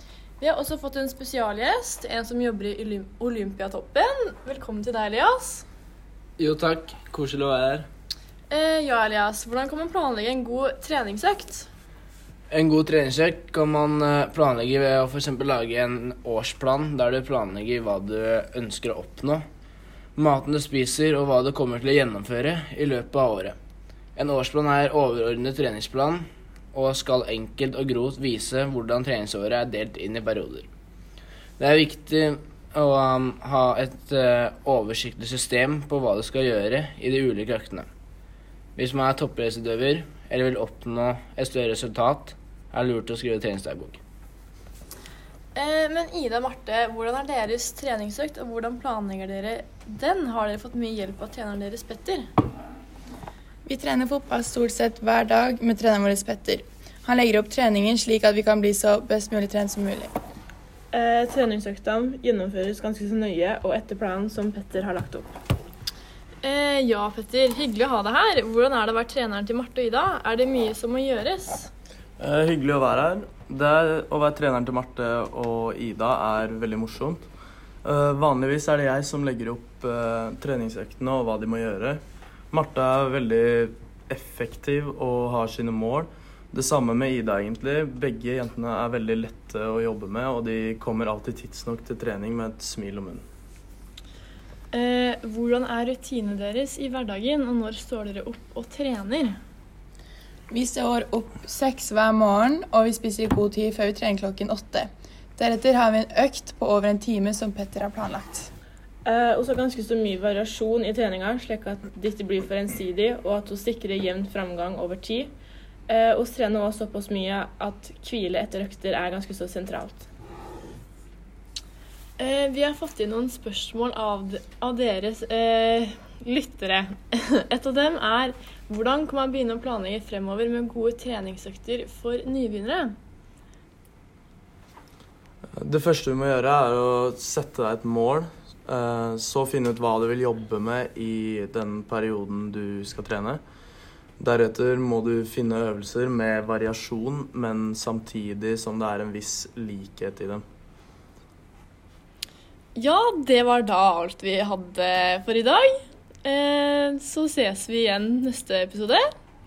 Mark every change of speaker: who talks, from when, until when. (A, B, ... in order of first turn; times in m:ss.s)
0:00.4-0:05.6 A
0:06.4-0:07.9 B
0:08.5-0:11.7 A
0:12.5-0:19.4 B
0:20.2-0:23.6 B
0:24.2-0:30.7 B
0:31.6-0:37.9 B
0:38.8-0:44.0 B
0:45.5-0:52.2 A
0:53.6-1:00.1 C
1:00.9-1:05.3 D
1:06.4-1:11.7 A
1:12.2-1:17.2 E
1:17.8-1:22.0 E
1:22.5-1:33.2 E
1:34.7-1:39.4 A
1:40.5-1:48.5 C
1:49.0-1:55.3 D
1:55.9-2:00.0 D
2:02.2-2:12.9 A
2:15.6-2:23.4 E
2:24.2-2:30.4 E
2:32.7-2:35.7 A
2:36.2-2:39.0 A